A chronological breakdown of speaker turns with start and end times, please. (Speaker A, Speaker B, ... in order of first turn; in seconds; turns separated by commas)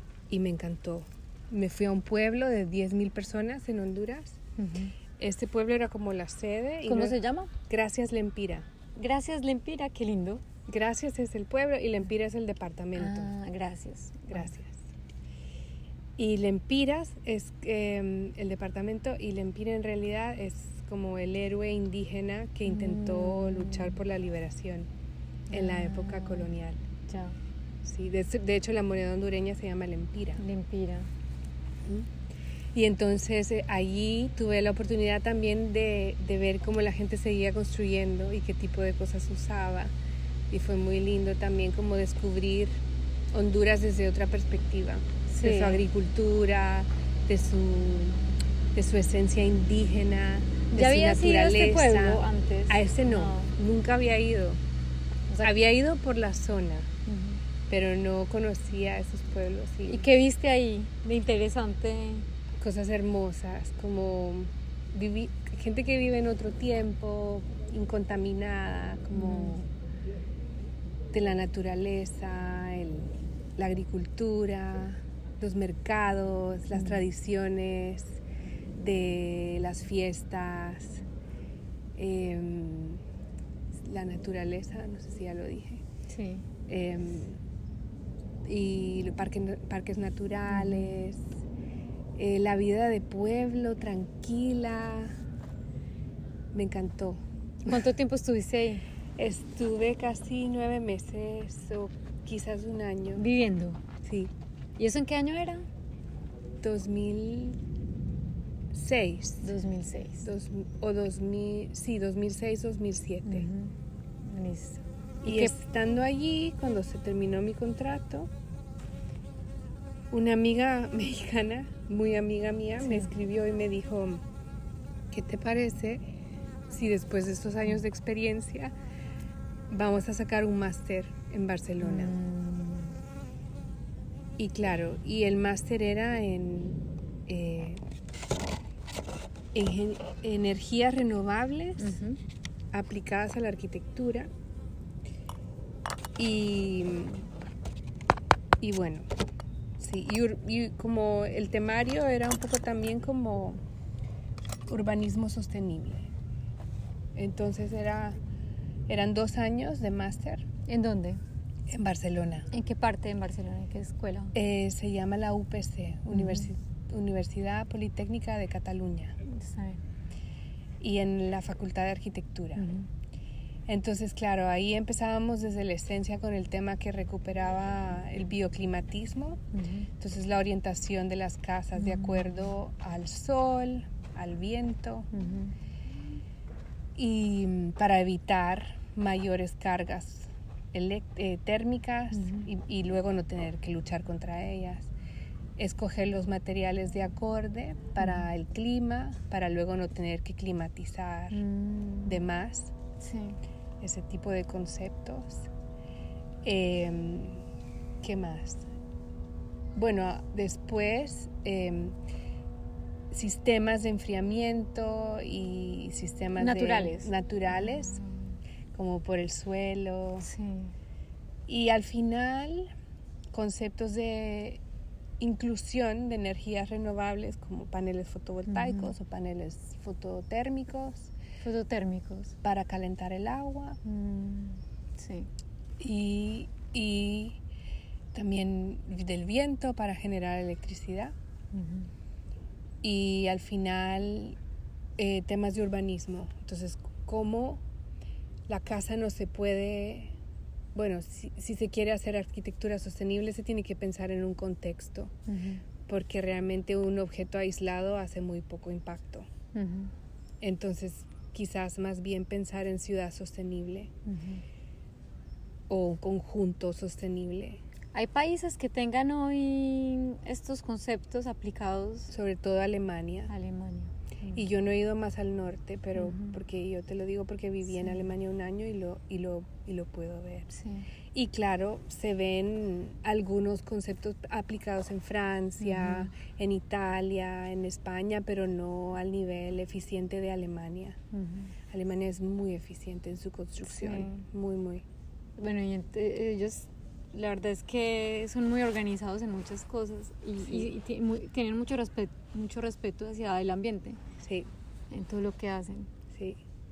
Speaker A: 0.3-4.4, Speaker B: 4.6-4.9, Speaker A: 5.2-7.2, Speaker B: 6.9-7.5, Speaker A: 7.7-8.7, Speaker B: 9.0-10.4, Speaker A: 10.7-13.3, Speaker B: 13.0-14.5, Speaker A: 14.3-14.8, Speaker A: 16.2-24.9, Speaker B: 22.7-24.0, Speaker B: 25.5-26.5, Speaker A: 25.5-26.8, Speaker B: 27.1-27.4, Speaker A: 27.8-30.4, Speaker B: 30.4-31.1, Speaker A: 32.7-39.9, Speaker A: 40.5-42.8, Speaker A: 43.3-48.2, Speaker B: 45.3-45.8, Speaker A: 48.8-54.6, Speaker B: 50.7-53.6, Speaker B: 55.3-55.5, Speaker A: 55.4-56.9, Speaker B: 57.1-57.4, Speaker A: 57.7-60.1, Speaker B: 59.9-62.3, Speaker A: 62.6-69.7, Speaker B: 69.1-69.6, Speaker A: 71.1-78.2, Speaker B: 76.8-77.0, Speaker A: 78.8-81.0, Speaker A: 82.0-83.0, Speaker A: 83.8-85.8, Speaker B: 86.1-86.5, Speaker A: 86.7-87.4, Speaker A: 88.4-91.4, Speaker B: 90.5-91.0, Speaker A: 92.2-95.2, Speaker A: 96.5-97.7, Speaker B: 97.7-98.8, Speaker A: 99.2-103.2, Speaker B: 103.2-103.8, Speaker A: 104.0-104.3, Speaker B: 104.8-105.7, Speaker A: 106.6-107.6, Speaker A: 108.7-109.5, Speaker B: 109.4-110.3, Speaker A: 110.2-113.5, Speaker B: 113.2-113.7, Speaker B: 114.2-115.5, Speaker A: 115.2-118.3, Speaker A: 120.1-124.2, Speaker B: 122.8-123.1, Speaker A: 125.1-126.0, Speaker A: 126.7-128.7, Speaker A: 129.7-132.1, Speaker B: 131.8-132.9, Speaker A: 134.4-137.8, Speaker A: 139.5-142.0, Speaker B: 141.8-142.2, Speaker A: 142.7-144.3, Speaker A: 146.2-147.3, Speaker A: 148.6-149.1, Speaker A: 149.8-153.6, Speaker A: 154.7-156.1, Speaker A: 157.2-158.2, Speaker A: 158.9-160.5, Speaker B: 160.7-161.2, Speaker A: 161.7-162.5, Speaker B: 162.5-164.3, Speaker A: 164.3-169.2, Speaker B: 166.1-166.5, Speaker B: 169.3-169.8, Speaker A: 170.8-172.7, Speaker B: 172.6-172.9, Speaker A: 173.7-179.4, Speaker B: 179.5-179.9, Speaker A: 180.0-185.1, Speaker B: 181.8-182.5, Speaker B: 185.1-185.5, Speaker A: 187.0-194.9, Speaker B: 192.1-192.5, Speaker A: 195.6-201.4, Speaker B: 198.0-198.3, Speaker B: 201.3-202.2, Speaker A: 202.1-202.8, Speaker B: 203.0-203.4, Speaker A: 203.8-205.5, Speaker A: 206.4-207.4, Speaker A: 208.0-208.7, Speaker A: 209.8-212.0, Speaker A: 213.1-218.0, Speaker B: 216.4-218.3, Speaker A: 218.7-220.3, Speaker B: 220.2-220.7, Speaker A: 221.5-222.7, Speaker A: 223.3-224.6, Speaker A: 225.2-231.1, Speaker B: 228.5-228.9, Speaker B: 231.4-232.4, Speaker A: 232.4-233.8, Speaker B: 233.8-235.3, Speaker A: 235.8-237.4, Speaker A: 238.1-241.2, Speaker B: 241.5-241.9, Speaker A: 242.8-244.4, Speaker A: 245.0-247.6, Speaker A: 248.5-250.1, Speaker A: 250.7-255.2, Speaker B: 255.3-255.6, Speaker A: 255.9-259.3, Speaker B: 259.5-259.9, Speaker A: 260.4-263.9, Speaker B: 264.1-264.4, Speaker A: 265.7-267.6, Speaker B: 267.9-272.1, Speaker A: 272.1-273.3, Speaker B: 273.3-274.5, Speaker A: 274.4-280.5, Speaker B: 275.9-276.4, Speaker B: 280.5-280.9, Speaker A: 281.1-291.0, Speaker B: 285.6-286.1, Speaker B: 291.1-291.6, Speaker A: 291.7-294.9, Speaker B: 293.6-294.2, Speaker B: 295.4-304.0, Speaker A: 304.2-304.5, Speaker B: 304.9-305.9, Speaker A: 306.1-306.4